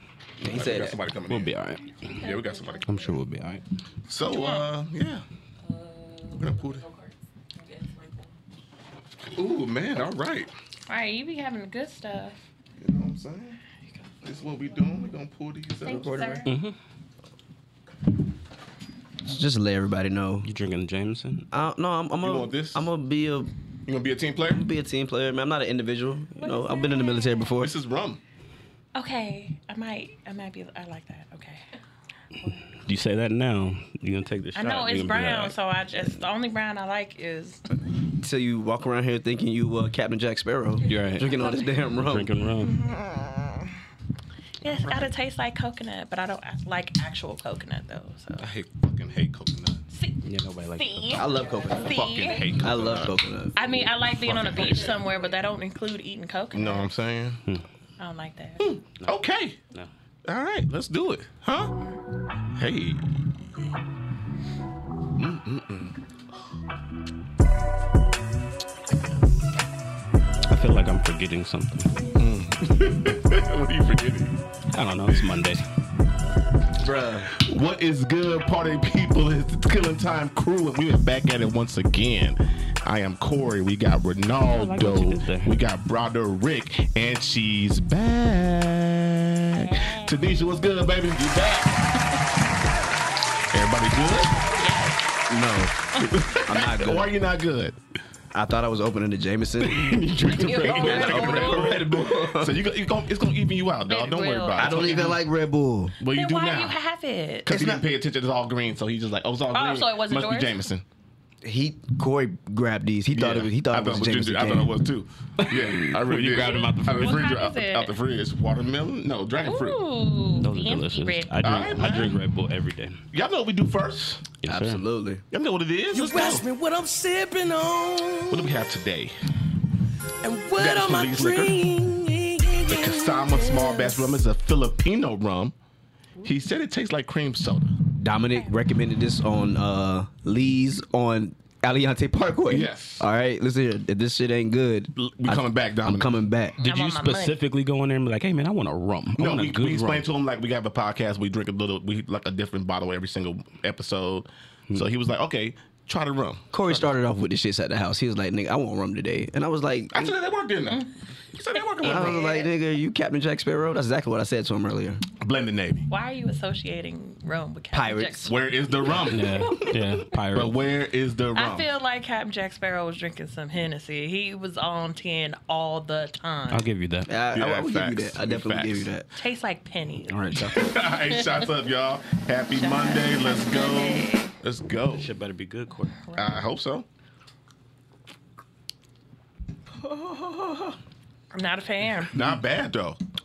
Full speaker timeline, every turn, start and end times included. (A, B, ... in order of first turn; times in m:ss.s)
0:00.4-0:01.0 A
0:00.4-0:01.5 B
0:01.3-0:02.2 C
0:02.0-0:02.8 D
0:02.1-0:03.2 B
0:02.8-0:03.6 C
0:04.1-0:05.2 B
0:04.3-0:04.7 D
0:05.7-0:07.1 D
0:06.4-0:06.8 B
0:07.6-0:08.2 D
0:09.3-0:10.5 B
0:10.9-0:12.4 D
0:12.8-0:13.6 B
0:14.2-0:16.2 B
0:15.8-0:16.5 D
0:15.8-0:16.5 A
0:16.4-0:16.7 C
0:19.2-0:20.5 A
0:20.4-0:21.5 C
0:21.5-0:23.5 A
0:22.2-0:22.9 B
0:23.8-0:24.6 B
0:24.5-0:27.7 A
0:26.4-0:27.5 D
0:27.6-0:28.2 B
0:28.9-0:31.7 D
0:32.8-0:35.5 C
0:34.5-0:37.6 D
0:38.2-0:42.3 A
0:40.9-0:42.8 C
0:41.3-0:41.8 D
0:42.6-0:43.7 D
0:44.6-0:48.5 D
0:44.6-0:45.1 B
0:48.4-0:49.8 B
0:49.9-0:50.2 D
0:50.2-0:51.4 C
0:50.8-0:52.6 D
0:51.1-0:53.6 A
0:51.8-0:53.1 B
0:53.6-0:56.8 D
0:54.2-0:55.0 B
0:56.5-0:57.4 B
0:58.0-0:58.7 D
0:58.6-0:59.6 B
1:00.2-1:01.7 B
1:02.5-1:03.7 B
1:05.1-1:06.0 B
1:10.5-1:11.9 C
1:12.1-1:14.4 B
1:14.7-1:15.6 C
1:16.8-1:17.3 A
1:17.3-1:32.2 B
1:24.4-1:25.5 C
1:29.5-1:30.2 D
1:33.5-1:34.4 B
1:34.6-1:35.1 D
1:35.3-1:35.8 A
1:36.0-1:37.8 B
1:36.3-1:37.1 A
1:38.3-1:40.0 A
1:39.6-1:41.6 C
1:40.2-1:41.8 D
1:40.6-1:42.6 A
1:40.6-1:45.2 B
1:43.9-1:45.0 D
1:44.6-1:46.0 A
1:46.0-1:46.8 B
1:46.1-1:47.6 D
1:47.4-1:50.8 B
1:47.5-1:47.8 A
1:49.5-1:50.6 D
1:51.4-1:54.7 A
1:53.1-1:59.8 B
1:55.4-1:57.4 C
1:56.3-1:57.9 D
1:59.4-2:02.2 D
2:00.4-2:03.0 C
2:01.4-2:02.1 B
2:03.1-2:04.2 B
2:04.4-2:04.8 C
2:04.5-2:05.2 A
2:05.3-2:06.4 B
2:05.9-2:08.5 E
2:08.3-2:09.1 B
2:10.2-2:14.0 E
2:10.6-2:11.6 B
2:12.7-2:15.5 B
2:16.2-2:17.8 B
2:18.0-2:26.6 A
2:22.5-2:23.0 B
2:24.9-2:26.2 B
2:26.6-2:27.4 D
2:26.6-2:30.0 C
2:29.2-2:36.4 B
2:36.5-2:40.1 A
2:39.9-2:42.4 B
2:41.8-2:42.5 D
2:41.8-2:45.0 A
2:45.2-2:45.9 B
2:45.9-2:48.3 D
2:47.7-2:48.3 A
2:48.2-2:49.5 B
2:49.1-2:50.6 C
2:50.3-2:51.7 B
2:51.3-2:56.7 D
2:56.5-2:57.1 C
2:57.1-2:59.0 A
2:57.3-2:58.9 B
2:59.1-3:01.4 D
3:00.1-3:00.7 A
3:00.4-3:05.1 B
3:02.6-3:04.3 D
3:05.0-3:06.0 C
3:06.0-3:06.4 D
3:06.1-3:06.8 B
3:09.9-3:10.7 A
3:11.3-3:12.1 D
3:12.1-3:13.0 B